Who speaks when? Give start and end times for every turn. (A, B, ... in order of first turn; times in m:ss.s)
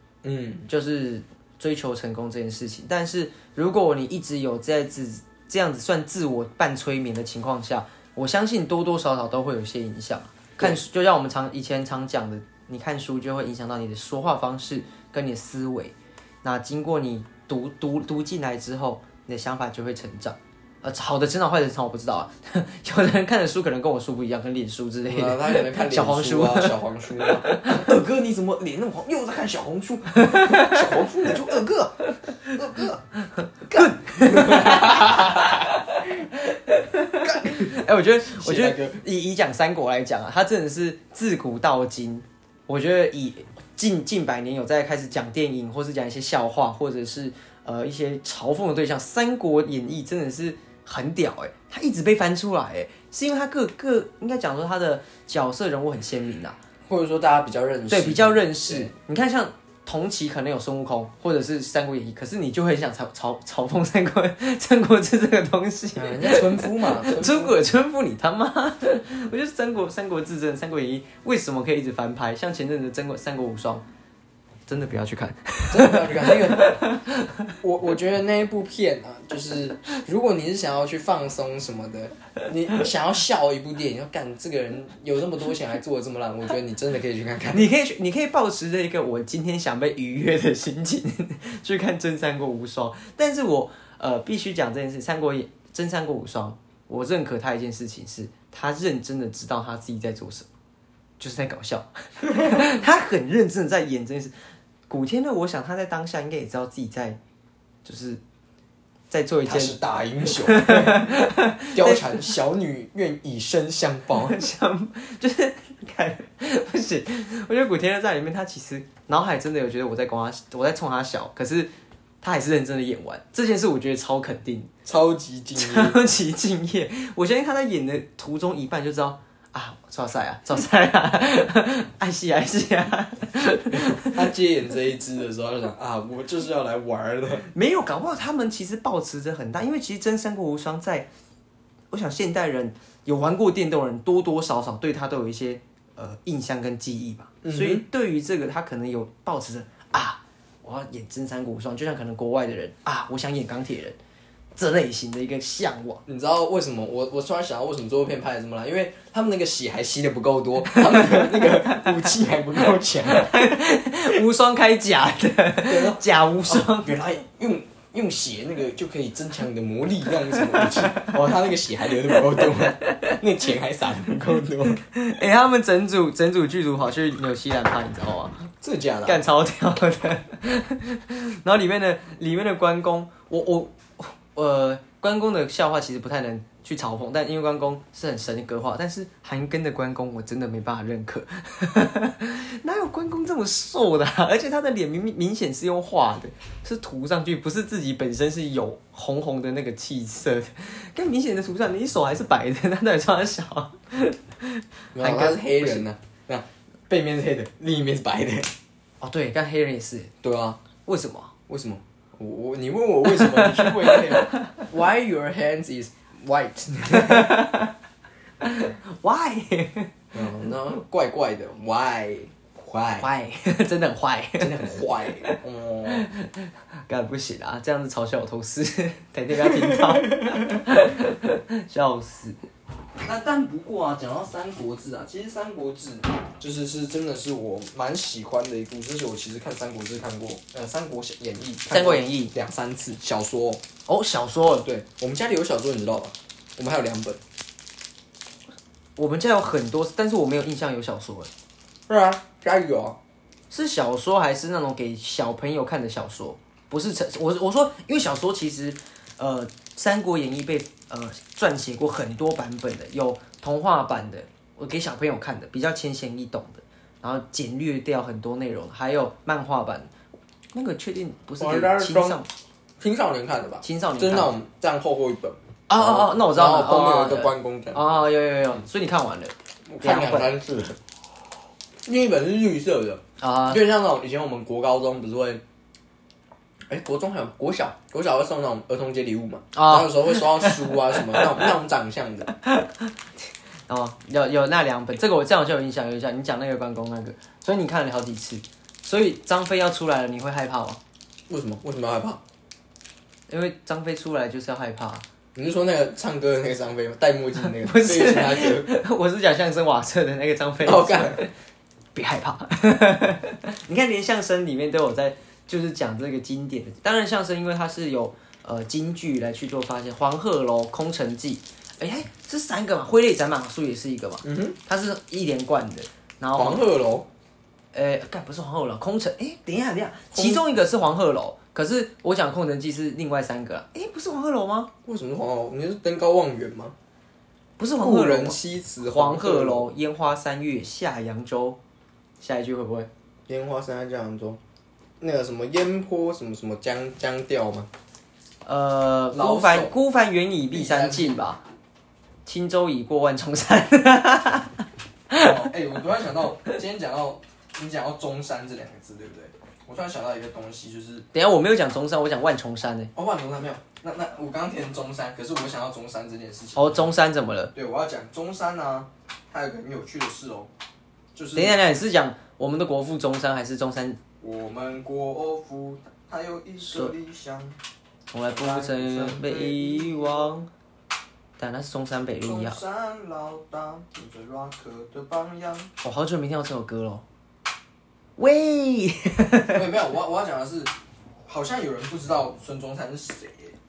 0:00.2-0:00.7 A
0:00.7-0:27.8 B
0:25.1-0:33.0 A
0:30.2-0:30.9 B
0:33.4-0:56.6 B
0:33.6-0:36.1 A
0:37.2-0:39.0 A
0:56.9-0:58.9 A
0:57.9-1:13.8 B
1:06.0-1:07.6 A
1:14.7-1:17.5 B
1:15.7-1:16.8 A
1:17.6-1:27.7 A
1:27.5-1:40.5 B
1:41.2-1:44.3 B
1:44.9-1:47.2 B
1:47.8-1:48.2 B
1:49.1-1:49.8 B
1:49.5-1:54.4 A
1:50.3-1:52.2 B
1:54.2-2:01.7 B
2:02.2-2:04.7 B
2:04.8-2:06.0 A
2:05.6-2:14.3 B
2:13.7-2:17.5 A
2:17.5-2:21.1 B
2:21.9-2:34.0 B
2:27.4-2:27.8 A
2:34.6-2:36.0 B
2:36.1-2:43.6 A
2:40.7-2:41.9 B
2:43.0-2:46.9 B
2:45.7-2:54.8 A
2:50.5-2:51.1 B
2:52.1-2:53.2 B
2:54.8-2:58.5 B
2:58.6-2:59.2 A
2:59.1-3:25.8 B
3:25.0-3:28.5 A
3:29.0-3:30.1 B
3:30.2-3:30.6 A
3:30.8-3:31.3 B
3:31.5-3:37.5 A
3:33.1-3:34.6 B
3:36.9-3:37.7 B
3:38.4-3:39.9 B
3:40.1-3:43.1 A
3:43.0-3:52.4 B
3:44.4-3:46.1 A
3:49.4-3:50.6 A
3:53.0-4:03.6 A
4:01.7-4:02.3 B
4:03.9-4:04.7 B
4:04.6-4:07.2 A
4:09.0-4:11.3 B
4:11.9-4:13.0 A
4:13.5-4:29.9 B
4:30.5-4:32.3 B
4:31.4-4:32.2 A
4:32.8-4:37.8 A
4:33.6-4:34.3 B
4:35.7-4:40.3 B
4:39.7-4:40.8 A
4:41.8-4:45.4 A
4:43.2-4:43.6 B
4:46.7-4:52.3 A
4:49.5-4:51.4 B
4:52.3-4:52.9 B
4:53.7-5:00.8 B
5:01.3-5:02.2 A
5:03.3-5:05.0 B
5:05.4-5:08.7 A
5:07.6-5:11.3 B
5:10.6-5:11.2 A
5:12.0-5:26.6 B
5:24.2-5:24.6 A
5:26.4-5:27.1 A
5:27.7-5:34.7 B
5:30.1-5:30.4 A
5:34.8-5:36.8 A
5:37.6-5:41.6 B
5:37.8-5:39.7 A
5:42.2-5:42.9 B
5:43.3-5:44.4 A
5:45.0-5:47.7 A
5:48.5-5:51.4 B
5:49.1-5:49.8 A
5:50.5-5:51.2 A
5:52.3-5:55.4 B
5:55.2-6:01.1 A
6:01.1-6:02.9 B
6:03.0-6:06.9 A
6:06.6-6:07.5 B
6:07.5-6:10.5 A
6:11.2-6:11.6 A
6:11.4-6:14.0 B
6:14.2-6:17.6 A
6:16.6-6:16.9 B
6:18.1-6:20.5 B
6:18.3-6:20.4 A
6:21.4-6:22.6 B
6:22.2-6:25.7 A
6:25.8-6:27.0 B
6:28.2-6:29.7 B
6:29.5-6:30.7 A
6:31.3-6:33.6 A